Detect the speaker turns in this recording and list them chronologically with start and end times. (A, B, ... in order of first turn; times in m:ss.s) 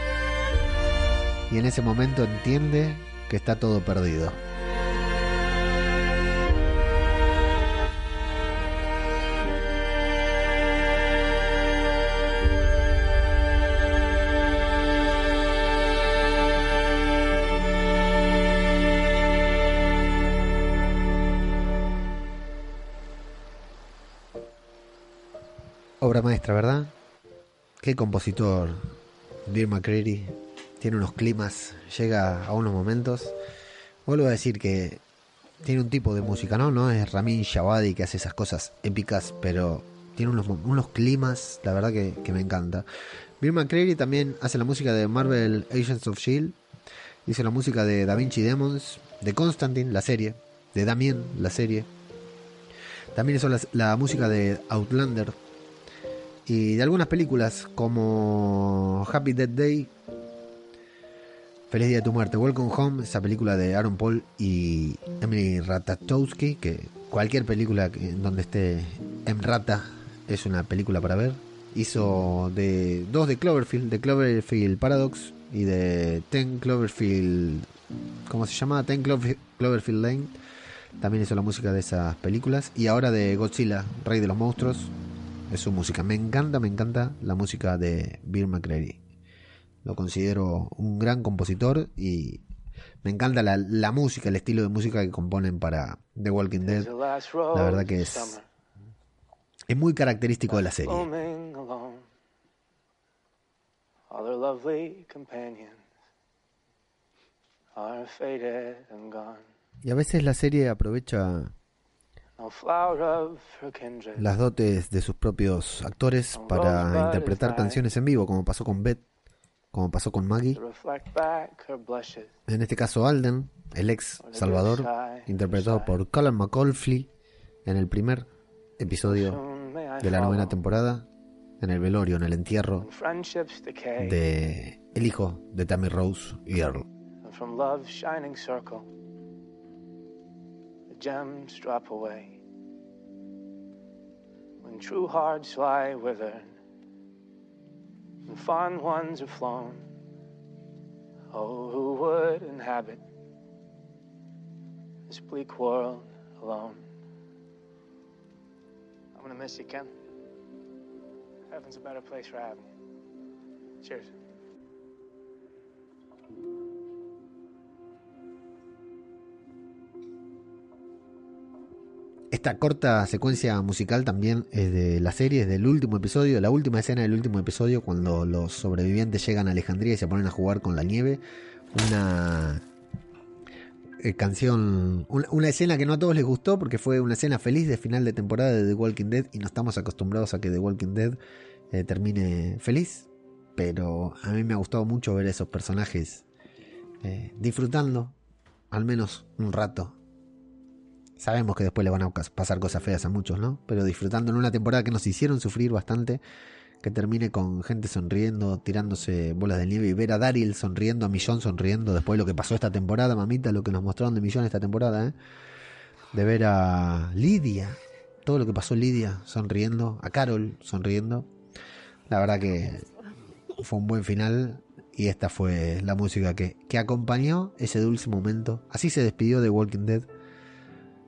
0:01.5-0:04.4 A
0:26.0-0:26.9 A
0:27.8-0:28.9 A
0:29.5-0:33.3 A
0:34.0-0:35.0 A
0:35.6-0:42.8 A
0:43.4-0:46.6 A
0:47.2-0:51.9 A
0:53.1-0:55.4 A
0:56.4-0:59.9 A
1:01.7-1:17.7 A
1:18.3-1:20.3 A
1:21.0-1:24.9 A
1:25.5-1:29.0 A
1:29.8-1:32.4 A
1:33.0-1:36.9 A
1:36.6-1:38.5 B
1:37.5-1:38.4 A
1:39.7-1:41.1 A
1:40.5-1:42.0 B
1:44.1-1:45.8 B
1:47.7-1:49.4 B
1:49.8-1:51.5 A
1:52.4-1:54.3 B
1:54.2-1:59.0 A
1:56.3-1:57.8 B
1:59.7-2:00.6 A
2:00.5-2:02.3 B
2:02.5-2:07.1 A
2:04.2-2:06.0 B
2:07.6-2:08.3 A
2:08.8-2:09.4 A
2:09.0-2:10.6 B
2:10.0-2:11.1 A
2:11.6-2:12.9 A
2:12.8-2:14.2 B
2:14.0-2:16.8 A
2:17.2-2:18.9 B
2:20.9-2:22.4 B
2:24.6-2:26.6 B
2:28.2-2:29.8 B
2:31.3-2:33.0 B
2:35.1-2:36.8 B
2:39.1-2:39.9 B
2:41.5-2:42.7 B
2:43.8-2:44.1 B
2:52.3-3:01.2 A
3:01.7-3:02.6 A
3:04.0-3:11.2 A
3:11.7-3:16.2 A
3:17.0-3:18.1 A
3:18.7-3:20.0 A
3:21.2-3:26.2 A
3:26.8-3:35.2 A
3:36.1-3:41.3 A
3:42.1-3:42.9 A
3:43.6-3:50.1 A